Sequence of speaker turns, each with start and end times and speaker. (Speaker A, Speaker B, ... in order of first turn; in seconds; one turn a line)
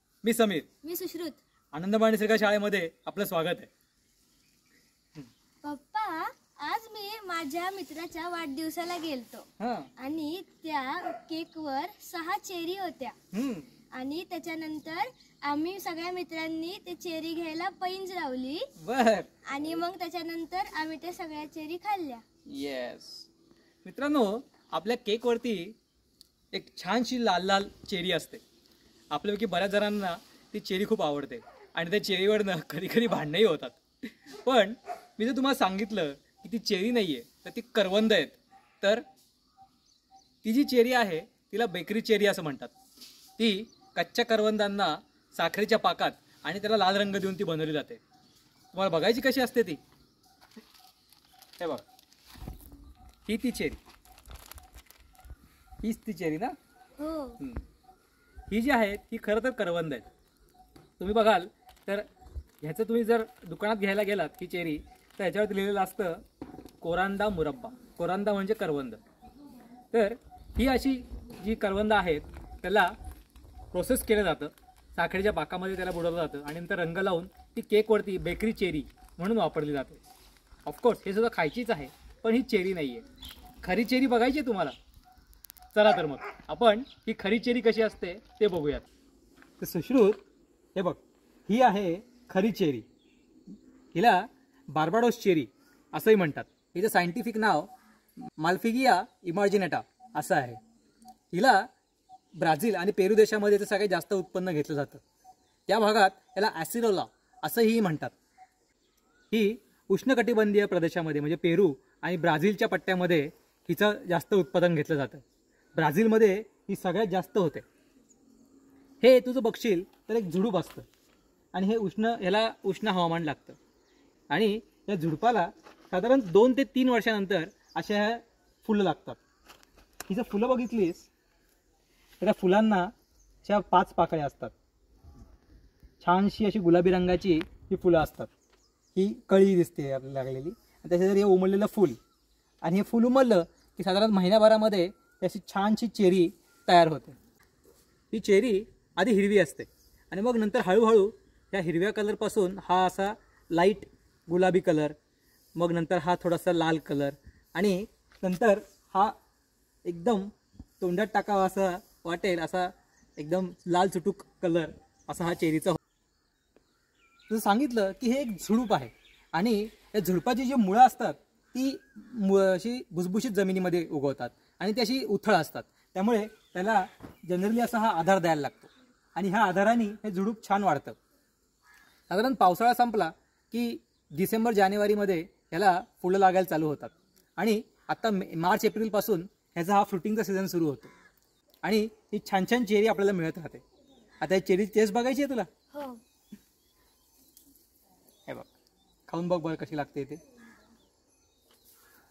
Speaker A: 0.2-0.7
Speaker B: 0.8-1.4
Speaker A: 1.7-3.7
Speaker B: 5.6-9.4
Speaker A: 9.6-9.9
Speaker B: 10.0-13.1
Speaker A: 13.3-13.7
Speaker B: 13.9-18.7
Speaker A: 18.8-19.3
Speaker B: 19.5-22.2
Speaker A: 22.5-23.3
Speaker A: 23.8-25.8
Speaker A: 26.5-28.4
Speaker A: 29.1-39.0
Speaker A: 40.4-42.7
Speaker A: 43.4-48.0
Speaker A: 48.7-49.8
Speaker A: 53.2-53.8
Speaker A: 55.8-56.5
Speaker B: 57.0-57.4
Speaker A: 58.5-60.0
Speaker A: 61.0-62.0
Speaker A: 62.6-66.2
Speaker A: 66.8-69.0
Speaker A: 69.9-72.9
Speaker A: 73.7-80.0
Speaker A: 80.6-83.0
Speaker A: 83.6-84.7
Speaker A: 85.7-88.8
Speaker A: 89.6-90.2
Speaker A: 90.7-92.8
Speaker A: 93.9-97.7
Speaker A: 98.4-100.6
Speaker A: 101.3-101.7
Speaker A: 102.4-105.0
Speaker A: 105.7-108.1
Speaker A: 109.3-115.2
Speaker A: 115.7-117.6
Speaker A: 119.0-120.8
Speaker A: 121.5-123.6
Speaker A: 124.3-129.2
Speaker A: 130.1-131.1
Speaker A: 132.2-132.9
Speaker A: 133.4-134.5
Speaker A: 136.0-138.3
Speaker A: 138.9-142.0
Speaker A: 142.6-147.2
Speaker A: 148.1-154.9
Speaker A: 155.6-159.2
Speaker A: 159.8-160.3
Speaker A: 160.8-165.8
Speaker A: 167.3-181.0
Speaker A: 182.1-190.9
Speaker A: 191.6-193.6
Speaker A: 194.2-195.5
Speaker B: 195.7-196.0
Speaker A: 199.1-200.2